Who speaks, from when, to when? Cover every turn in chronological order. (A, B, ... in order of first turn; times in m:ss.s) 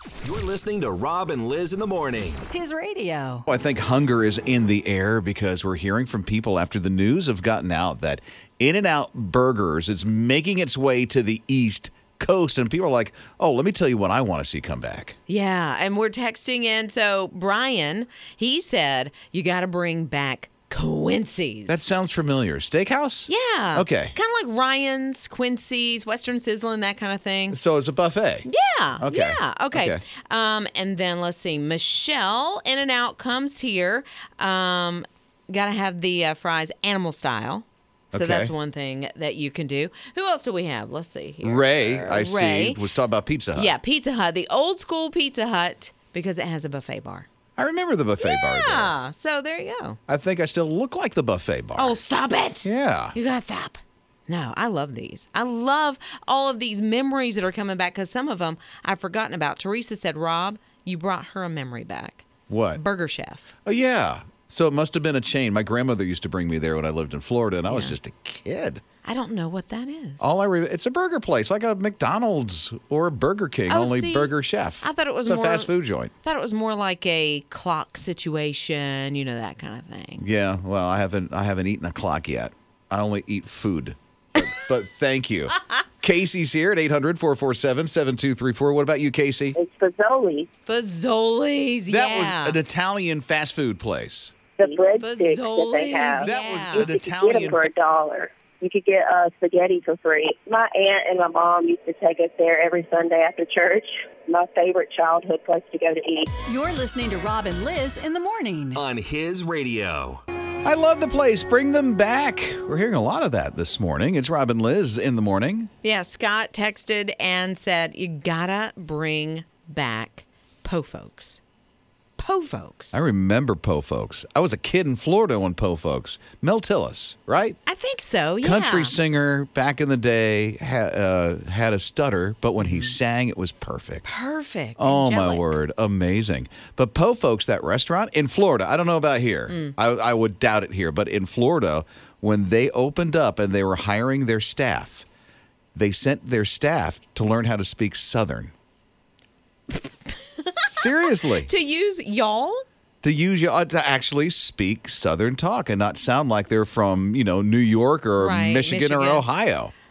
0:00.2-0:02.4 A
0:02.5-0:03.4 B
0:03.5-0:15.2 C
0:15.3-0:21.8 D
0:21.7-0:24.2 C
0:23.3-0:27.6 D
0:27.5-0:28.4 C
0:28.4-0:42.8 D
0:29.0-0:30.0 C
0:38.1-0:38.5 C
0:41.4-0:43.7 C
0:43.6-0:47.3 D
0:47.6-0:48.9 C
0:48.2-0:50.0 D
0:50.1-0:52.0 C
0:51.8-1:03.5 D
0:52.6-0:53.2 C
1:02.5-1:02.8 C
1:03.6-1:08.8 C
1:07.7-1:08.0 D
1:09.0-1:10.3 D
1:10.2-1:16.1 C
1:13.7-1:20.2 D
1:20.2-1:29.5 C
1:29.6-1:30.5 E
1:30.6-1:32.6 D
1:31.9-1:34.4 C
1:34.6-1:46.3 E
1:35.0-1:36.9 D
1:36.2-1:37.6 C
1:46.4-1:48.8 B
1:48.8-1:50.2 A
1:50.6-1:55.7 C
1:55.8-2:01.4 D
2:02.2-2:03.0 D
2:02.9-2:07.6 C
2:07.7-2:09.0 D
2:08.4-2:14.0 C
2:12.6-2:13.0 D
2:14.0-2:15.6 D
2:14.8-2:25.1 C
2:19.5-2:19.7 D
2:25.8-2:28.5 C
2:29.7-2:32.6 D
2:30.7-2:31.5 C
2:33.0-2:39.7 C
2:38.2-2:39.3 D